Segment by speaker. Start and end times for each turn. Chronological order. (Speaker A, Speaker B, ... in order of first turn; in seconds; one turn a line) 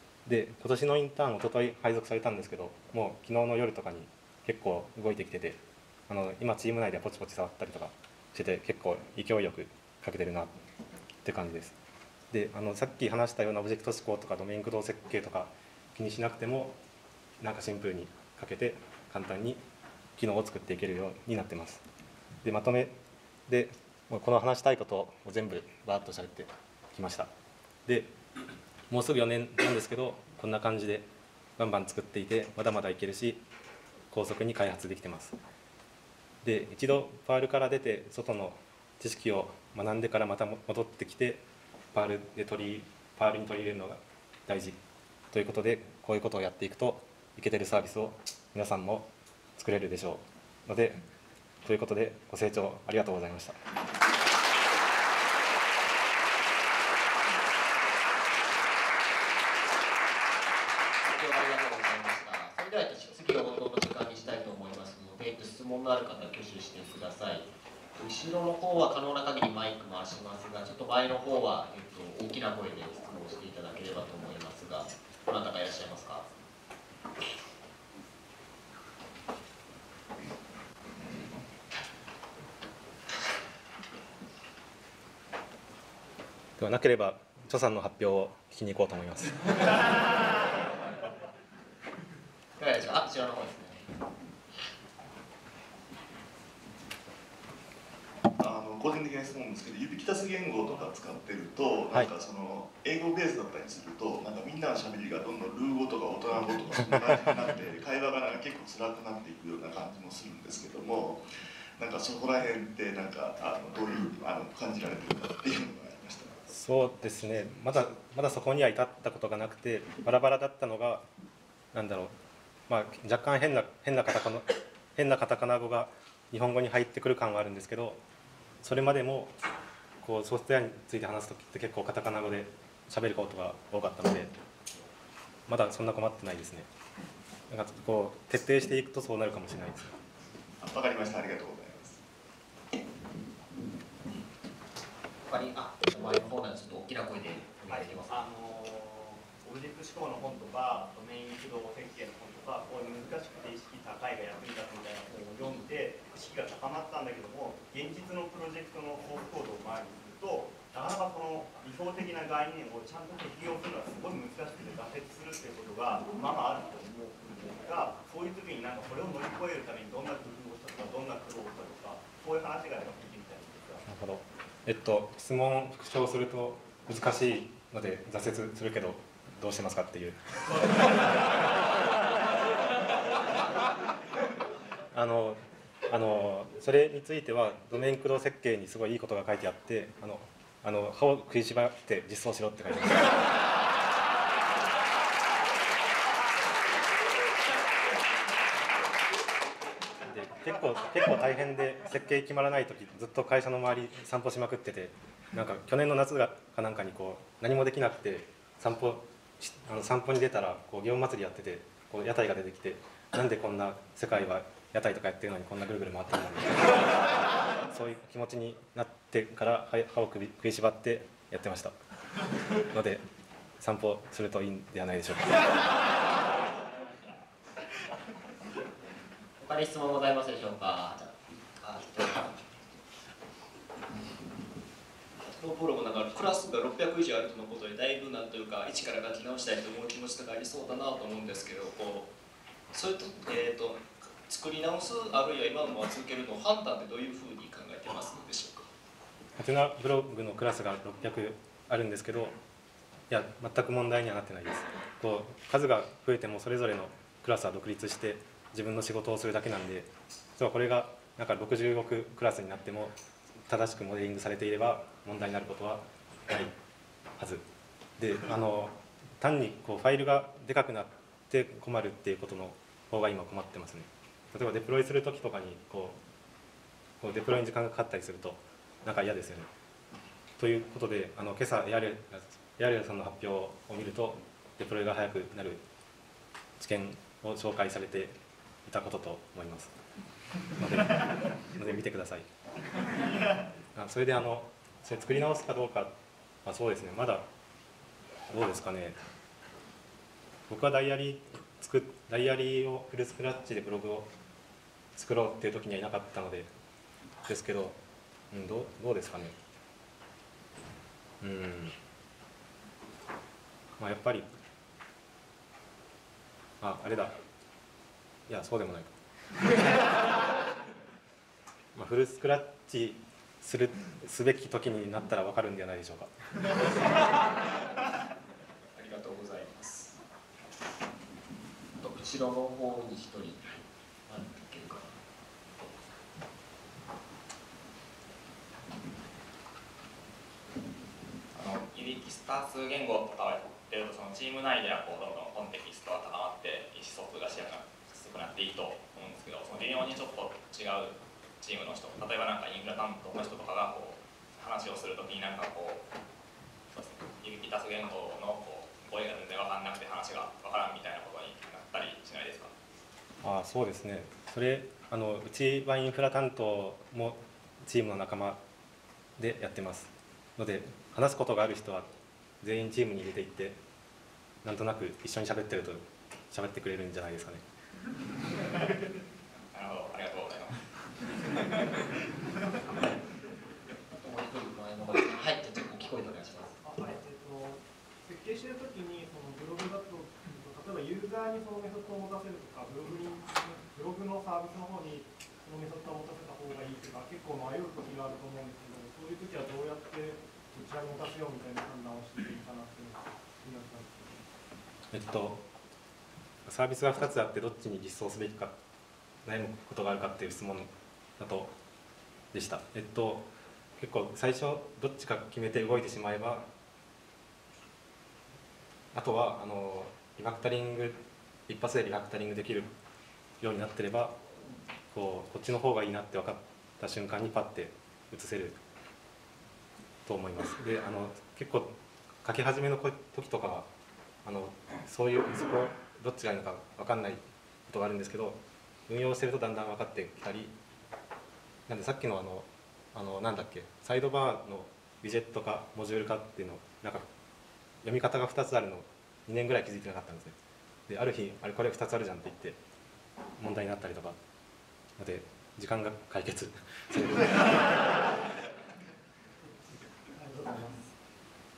Speaker A: 0.2-10.5
Speaker A: 11.2-11.8
Speaker A: 12.3-16.8
Speaker A: 17.4-19.6
Speaker A: 20.1-21.8
Speaker A: 22.4-22.9
Speaker A: 23.5-27.3
Speaker A: 27.9-28.1
Speaker A: 28.9-33.4
Speaker A: 34.1-35.4
Speaker A: 36.4-44.8
Speaker A: 45.3-51.0
Speaker A: 51.6-53.6
Speaker B: 61.1-76.3
Speaker A: 86.6-89.7
Speaker B: 92.6-93.9
Speaker C: 98.4-116.4
Speaker A: 116.5-121.0
Speaker A: 121.7-122.1
Speaker A: 122.7-128.0
Speaker A: 128.6-129.4
Speaker A: 130.0-134.3
Speaker A: 135.5-136.7
Speaker A: 137.5-139.9
Speaker C: 140.6-142.0
Speaker B: 145.3-148.2
Speaker D: 147.7-173.8
Speaker A: 173.8-180.9
Speaker A: 184.9-193.3
Speaker A: 200.0-221.7
Speaker A: 222.6-223.0
Speaker A: 223.6-225.5
Speaker B: 229.4-232.3
Speaker E: 235.4-242.1
Speaker E: 242.7-248.7
Speaker A: 249.4-252.4
Speaker A: 253.1-262.9
Speaker A: 263.4-266.5
Speaker A: 267.2-267.4
Speaker A: 268.0-276.0
Speaker A: 277.0-279.5
Speaker A: 280.4-285.6
Speaker A: 286.6-289.7
Speaker A: 290.5-292.3
Speaker A: 293.7-297.3
Speaker A: 298.3-299.0
Speaker A: 300.5-304.1
Speaker A: 304.9-306.5
Speaker A: 307.2-307.8
Speaker A: 308.3-309.4
Speaker A: 311.2-311.8
Speaker A: 313.8-314.3
Speaker A: 316.6-317.1
Speaker A: 318.3-318.9
Speaker A: 321.7-326.1
Speaker E: 328.7-330.0
Speaker B: 331.8-334.9
Speaker F: 341.3-355.8
Speaker F: 356.7-362.5
Speaker A: 363.2-368.4
Speaker A: 369.2-373.6
Speaker A: 374.4-377.4
Speaker F: 379.5-380.6
Speaker B: 384.0-386.6
Speaker G: 386.6-404.2
Speaker A: 404.9-405.4
Speaker A: 406.4-408.6
Speaker A: 409.2-411.6
Speaker A: 412.3-416.5
Speaker A: 418.9-422.7
Speaker A: 423.4-424.2
Speaker A: 424.9-428.6
Speaker A: 430.0-433.7
Speaker A: 434.2-440.5
Speaker A: 441.7-447.1
Speaker A: 447.8-450.3
Speaker A: 450.9-452.6
Speaker A: 453.4-454.2
Speaker A: 455.0-458.0
Speaker G: 460.2-460.9